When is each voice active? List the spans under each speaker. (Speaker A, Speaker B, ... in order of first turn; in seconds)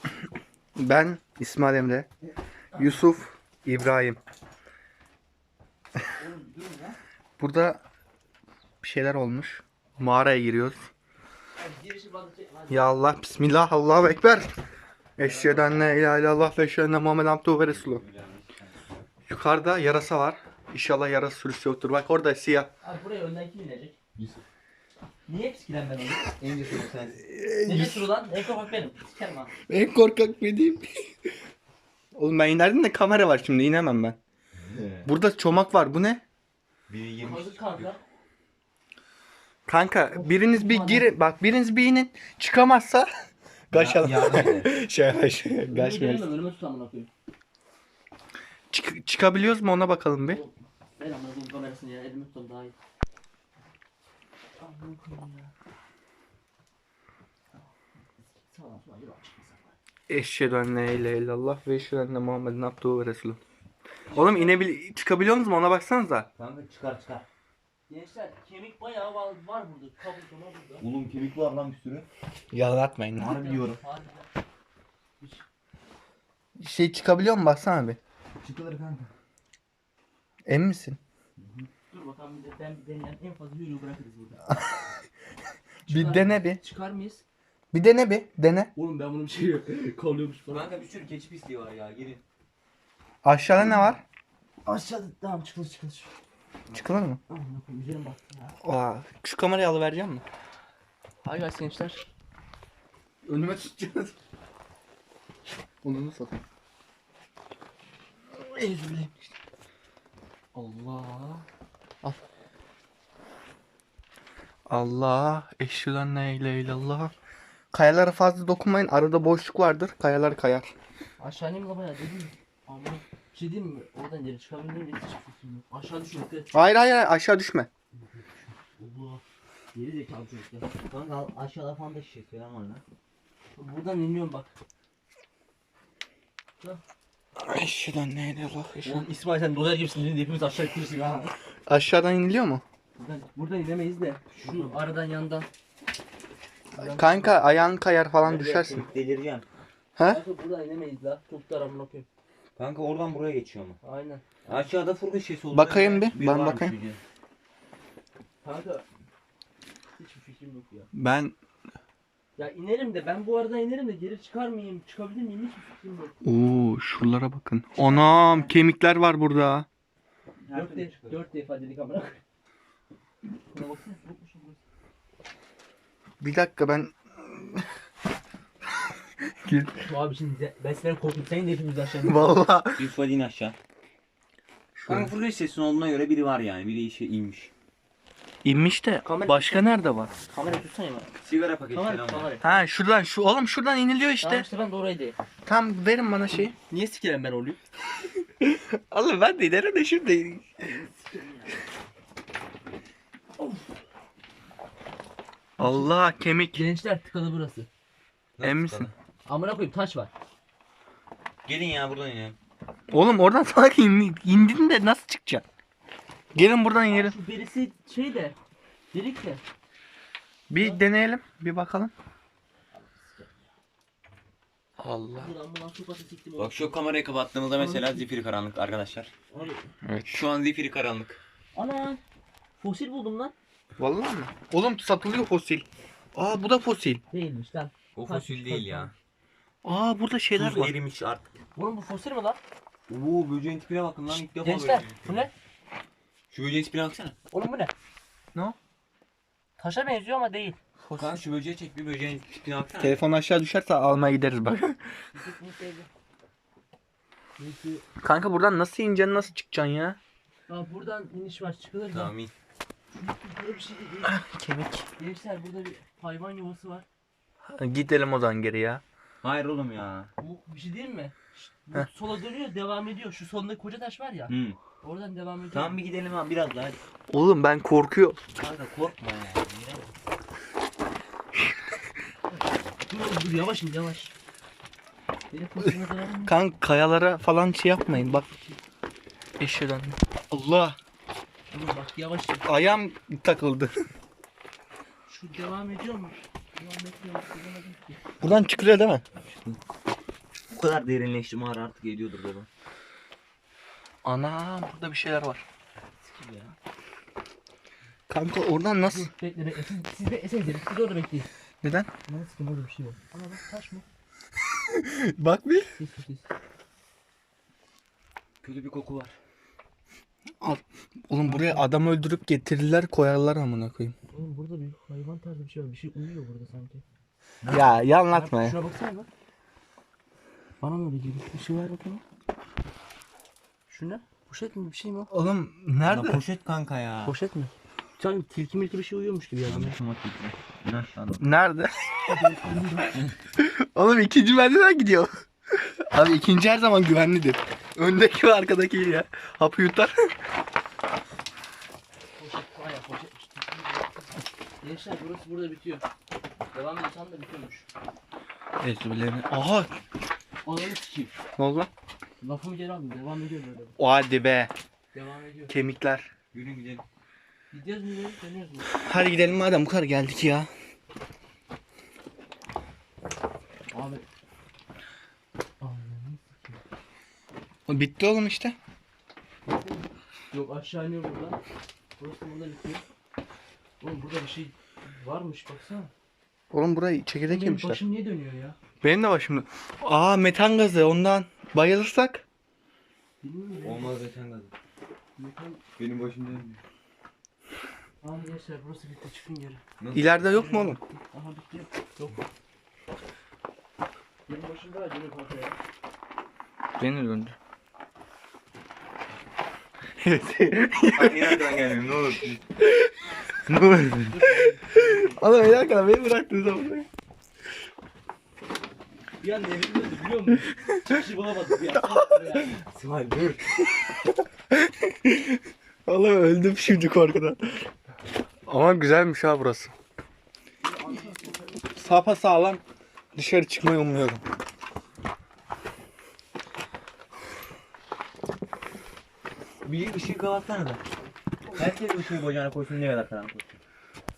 Speaker A: 0.8-2.1, 2.8-4.2, 7.4-7.8, 8.8-10.9, 12.7-14.5, 15.2-18.0, 19.3-22.7, 27.2-28.1, 29.7-31.0, 32.1-34.2, 35.0-36.2, 39.7-43.1, 43.7-46.3, 48.7-50.4, 60.1-63.4, 64.1-66.3, 72.5-73.4, 76.6-78.0, 80.5-81.0, 85.9-86.6, 87.7-88.7, 93.2-94.0, 96.7-97.2, 98.6-100.2, 103.2-104.1, 105.8-106.4, 108.4-109.1, 110.5-111.2, 114.7-117.1, 117.7-120.7, 126.5-127.7, 137.4-139.1, 141.7-142.6, 146.8-148.9, 150.0-150.2, 155.5-156.7, 160.9-161.3, 166.2-169.7, 176.2-177.6, 179.4-179.8, 182.0-182.9, 184.8-185.1, 188.4-190.1, 192.4-194.5, 195.5-196.5, 198.3-200.7, 205.6-206.6, 208.4-208.9, 212.9-215.4, 216.3-217.2, 220.5-221.9, 224.8-225.3, 229.8-230.2, 233.8-237.0, 239.6-240.8, 250.8-251.2, 252.8-254.8, 258.0-260.0, 264.0-264.9, 267.5-268.8, 277.1-278.2, 286.2-288.2, 289.4-290.8, 292.4-293.7, 298.2-299.0, 304.0-305.4, 308.1-309.1, 311.6-311.9, 314.7-315.7, 320.4-323.9, 327.5-328.6, 335.1-336.2, 341.2-342.1, 343.4-350.1, 358.6-359.7, 361.4-361.7, 363.8-364.5, 365.5-366.1, 368.7-370.5, 377.7-378.6, 386.5-387.8, 388.8-392.2, 399.9-400.8, 406.8-407.4, 410.0-411.7, 412.7-414.2, 414.7-416.9, 424.5-427.6, 428.5-429.7, 431.8-432.6, 433.1-434.2
Speaker B: 2.7-3.0, 6.2-7.0, 11.6-12.9, 22.8-24.0, 25.3-26.3, 27.6-29.5, 37.2-38.0, 40.1-41.1, 45.6-47.1, 50.3-52.7, 54.6-55.5, 58.3-59.8, 64.1-64.7, 67.9-70.9, 73.2-74.3, 81.9-84.5, 85.9-87.2, 88.8-90.8, 93.6-94.0, 94.7-96.1, 97.3-98.6, 101.2-102.1, 111.2-111.4, 121.2-126.5, 128.0-129.2, 129.7-130.7, 133.6-134.5, 138.8-141.3, 143.0-145.5, 146.7-147.5, 148.3-148.8, 150.0-152.1, 153.8-154.2, 158.4-158.8, 160.0-160.9, 162.4-166.2, 167.8-168.6, 170.5-172.2, 173.5-174.6, 179.8-182.4, 189.0-191.2, 191.7-192.6, 194.2-195.2, 196.3-197.6, 200.6-201.6, 203.4-203.7, 205.6-205.9, 206.5-207.7, 209.3-210.1, 216.8-218.4, 218.9-219.4, 220.6-220.8, 222.7-223.5, 225.1-226.8, 227.5-228.1, 229.3-229.7, 231.6-232.0, 232.6-233.3, 237.1-238.9, 241.6-242.4, 244.1-245.3, 247.3-247.7, 249.6-250.6, 255.1-255.9, 257.4-257.9, 260.5-262.1, 262.9-264.2, 265.0-266.9, 270.2-275.8, 282.9-284.1, 285.3-286.4, 287.9-288.6, 291.5-292.5, 295.1-298.0, 306.2-306.5, 308.8-311.3, 312.1-313.9, 315.7-316.3, 321.2-321.7, 324.1-326.8, 328.1-329.1, 330.6-332.0, 333.7-335.1, 337.0-339.8, 342.1-343.1, 352.2-355.8, 356.5-357.7, 360.4-361.1, 362.2-363.8, 364.9-365.6, 367.5-368.8, 373.7-374.1, 375.6-376.6, 379.5-381.4, 382.0-382.8, 383.8-385.9, 387.3-388.6, 393.2-394.0, 395.2-395.6, 398.0-399.6, 400.3-402.2, 404.3-405.6, 414.1-415.2, 419.2-422.6, 430.6-431.7
Speaker C: 15.2-15.9, 17.5-19.0, 26.4-27.2, 34.6-35.1, 36.9-37.9, 43.7-44.7, 66.4-67.3, 70.8-72.1, 73.1-73.8, 78.4-79.1, 81.4-81.7, 90.5-92.2, 130.9-132.8, 144.3-144.8, 148.2-149.4, 152.6-153.8, 154.4-157.0, 170.4-171.2, 182.8-183.6, 184.9-187.5, 191.2-192.3, 208.4-208.9, 211.4-212.4, 226.4-229.1, 230.1-231.2, 238.0-238.9, 240.3-241.3, 242.9-245.3, 246.3-247.2, 251.0-253.0, 261.9-262.3, 269.2-270.1, 274.3-274.6, 275.5-276.8, 278.3-279.9, 299.3-299.6, 300.5-302.5, 318.4-319.2, 327.4-327.9, 335.8-337.1, 339.5-341.2, 366.3-366.9, 393.6-394.5, 395.8-396.6, 399.8-400.2, 410.9-412.4, 422.4-423.4, 439.6-440.8, 441.5-443.6